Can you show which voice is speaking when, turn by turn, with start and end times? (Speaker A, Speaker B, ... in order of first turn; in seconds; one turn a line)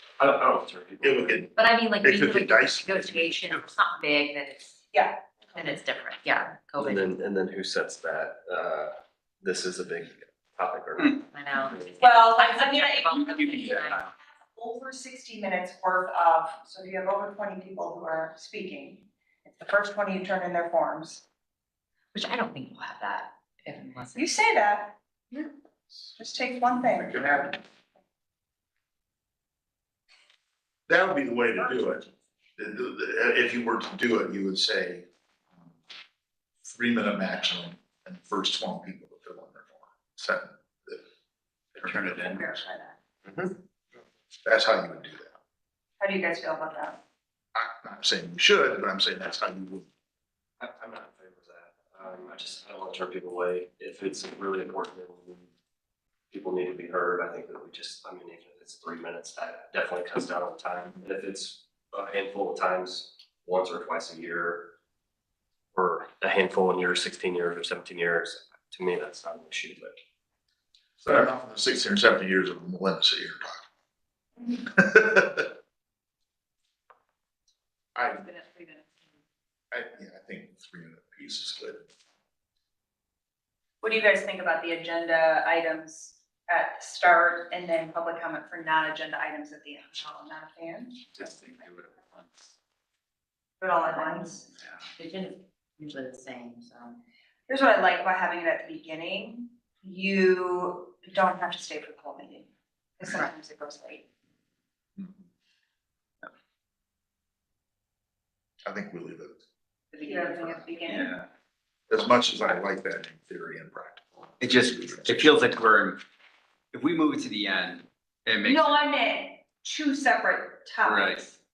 Speaker A: 0.2-1.4
Speaker B: 1.0-3.6
Speaker C: 1.6-4.8
Speaker D: 4.9-5.8
Speaker C: 5.5-7.1
Speaker A: 6.9-11.8
Speaker C: 11.3-14.1
Speaker D: 12.0-21.2
Speaker C: 22.1-24.4
Speaker D: 24.1-25.0
Speaker D: 26.1-27.6
Speaker B: 26.9-27.6
Speaker B: 30.9-32.0
Speaker B: 32.6-35.1
Speaker B: 36.6-41.0
Speaker B: 41.8-42.2
Speaker D: 41.9-43.0
Speaker B: 44.4-45.4
Speaker D: 46.0-47.0
Speaker B: 47.5-49.9
Speaker A: 50.6-55.5
Speaker A: 56.3-64.7
Speaker A: 65.7-70.0
Speaker B: 71.0-73.6
Speaker B: 74.6-75.5
Speaker B: 77.9-78.3
Speaker D: 78.2-79.0
Speaker B: 79.7-81.8
Speaker D: 83.8-91.0
Speaker E: 91.2-92.2
Speaker D: 93.6-94.5
Speaker C: 93.9-94.2
Speaker C: 94.9-97.0
Speaker D: 97.5-104.1
Speaker B: 108.6-109.4
Speaker C: 109.9-110.5
Speaker D: 110.0-111.1
Speaker E: 110.9-111.3
Speaker B: 111.9-115.3
Speaker E: 114.4-116.0
Speaker E: 116.7-118.8
Speaker D: 118.4-121.4
Speaker E: 120.9-121.2